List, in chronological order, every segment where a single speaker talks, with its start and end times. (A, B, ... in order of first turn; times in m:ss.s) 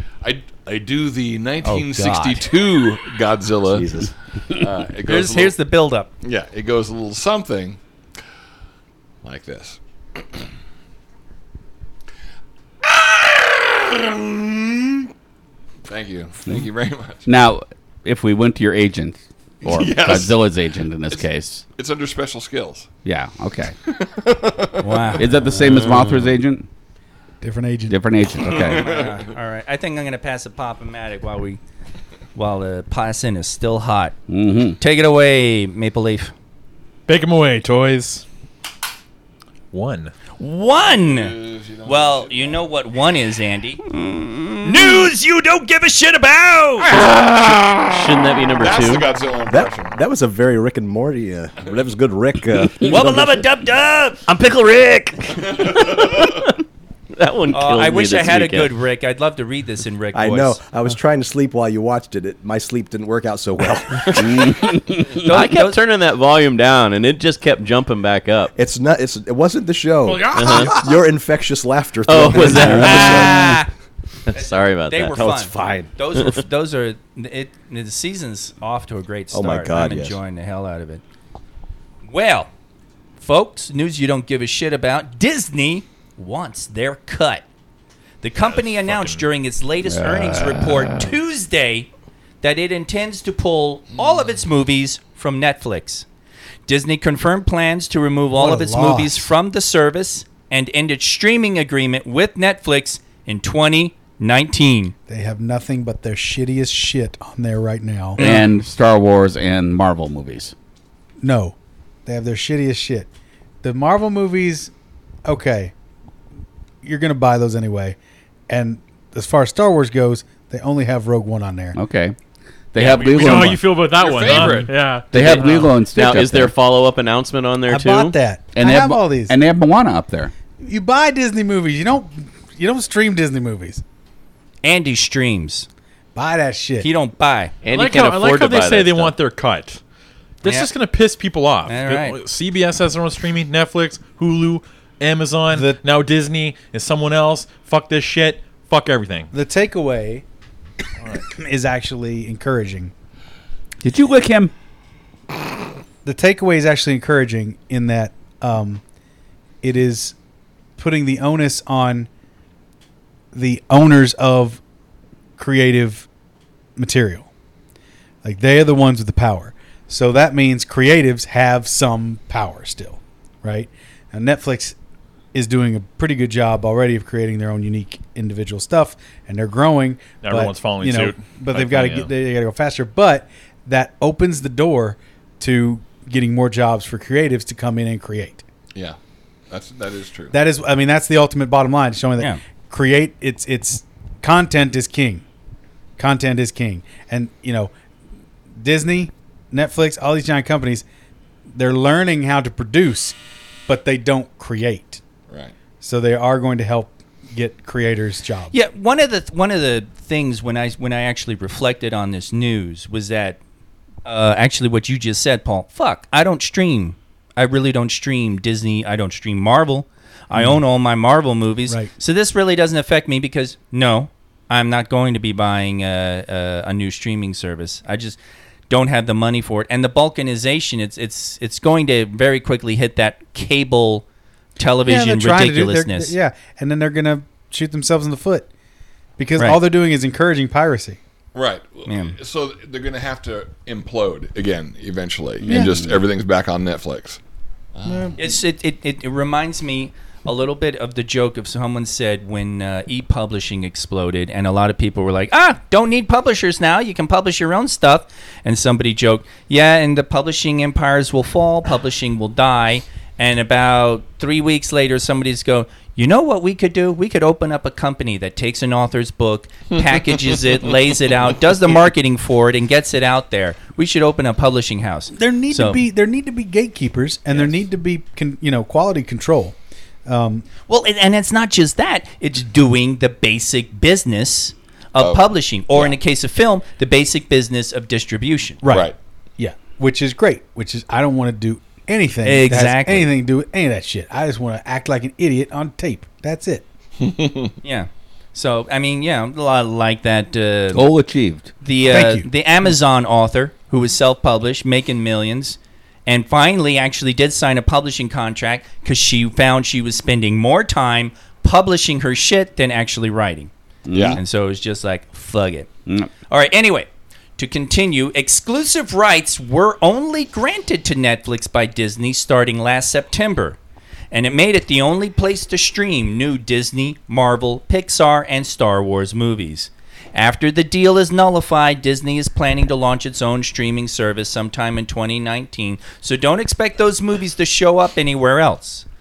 0:00.2-0:03.9 A
0:01.6-0:02.4 B
0:03.7-0:04.1 C
0:04.5-0:05.5 A
0:05.0-0:06.1 B
0:06.2-0:07.8 A
0:09.2-0:09.8 A
0:12.8-0:14.9 A
0:15.8-0:17.2 A
0:17.2-0:21.6 D
0:19.6-0:20.4 A
0:21.1-0:22.9 A
0:23.0-0:23.7 D
0:23.9-0:26.1 A
0:24.8-0:25.3 B
0:25.2-0:26.7 D
0:27.4-0:28.0 E
0:27.9-0:28.9 D
0:28.4-0:29.2 A
0:28.5-0:31.6 B
0:32.3-0:34.2 B
0:34.3-0:34.8 D
0:34.8-0:36.3 B
0:37.1-0:38.2 F
0:39.7-0:40.1 F
0:40.4-0:43.8 B
0:40.8-0:42.6 A
0:44.0-0:44.9 D
0:44.6-0:46.9 B
0:47.6-0:49.1 G
0:48.6-0:50.0 A
0:49.5-0:53.4 C
0:52.8-0:54.2 B
0:54.3-0:56.5 G
0:54.8-0:55.1 C
0:55.5-0:56.4 A
0:57.1-0:58.7 G
0:57.5-1:00.6 B
1:00.1-1:04.6 C
1:04.2-1:05.3 D
1:05.1-1:05.8 B
1:05.2-1:08.5 G
1:08.6-1:13.5 C
1:10.3-1:10.8 G
1:12.1-1:13.4 G
1:12.4-1:13.2 D
1:12.7-1:13.7 B
1:14.3-1:15.2 G
1:14.3-1:21.0 B
1:15.1-1:15.9 C
1:19.3-1:20.2 C
1:22.0-1:22.5 B
1:23.2-1:27.4 B
1:28.2-1:31.9 B
1:28.4-1:28.7 A
1:29.8-1:31.1 D
1:32.4-1:36.0 B
1:34.0-1:34.2 A
1:36.7-1:44.9 B
1:38.4-1:39.3 E
1:45.1-1:48.4 E
1:48.2-1:48.5 B
1:48.2-1:50.5 D
1:51.2-1:53.1 E
1:53.6-1:54.7 E
1:55.2-1:55.7 E
1:56.8-1:58.0 E
1:58.5-2:01.8 E
2:01.7-2:02.2 D
2:02.7-2:03.7 D
2:02.8-2:05.7 F
2:03.1-2:04.8 A
2:05.1-2:06.5 D
2:05.1-2:08.2 G
2:07.7-2:09.3 E
2:08.5-2:10.3 D
2:10.6-2:13.8 E
2:14.6-2:15.7 B
2:16.1-2:16.9 E
2:16.8-2:17.5 B
2:17.6-2:19.1 G
2:17.7-2:19.8 F
2:20.4-2:29.3 F
2:20.4-2:20.7 B
2:21.6-2:22.2 B
2:25.5-2:25.8 E
2:29.3-2:30.2 E
2:31.1-2:32.9 E
2:33.8-2:34.5 D
2:36.0-2:38.8 E
2:39.6-2:40.1 E
2:40.8-2:42.1 E
2:43.3-2:44.6 E
2:45.4-2:46.1 E
2:46.8-2:47.3 E
2:48.2-2:54.8 E
2:55.3-3:08.4 E
3:00.2-3:02.1 F
3:09.5-3:10.3 A
3:10.3-3:15.2 E
3:16.0-3:17.7 E
3:18.6-3:20.8 E
3:21.5-3:25.0 E
3:25.3-3:25.5 A
3:25.8-3:28.5 E
3:28.5-3:33.4 B
3:34.0-3:48.2 B
3:40.3-3:40.6 E
3:48.7-3:54.0 B
3:54.6-3:56.1 B
3:54.8-3:58.5 E
3:59.2-4:01.0 E
4:01.3-4:07.2 A
4:01.9-4:02.1 B
4:05.4-4:05.8 D
4:05.5-4:05.8 E
4:07.7-4:08.1 A
4:08.2-4:35.8 B
4:35.1-4:40.4 E
4:40.7-4:48.6 B
4:45.0-4:46.0 A
4:48.6-4:56.6 E
4:48.6-4:48.9 A
4:52.2-4:53.1 B
4:57.0-4:57.5 A
4:57.6-5:00.8 B
5:00.7-5:01.5 D
5:01.6-5:13.5 B
5:01.9-5:02.3 E
5:13.8-5:14.2 D
5:13.9-5:14.2 A
5:14.1-5:15.7 B
5:16.3-5:23.6 B
5:24.1-5:38.8 B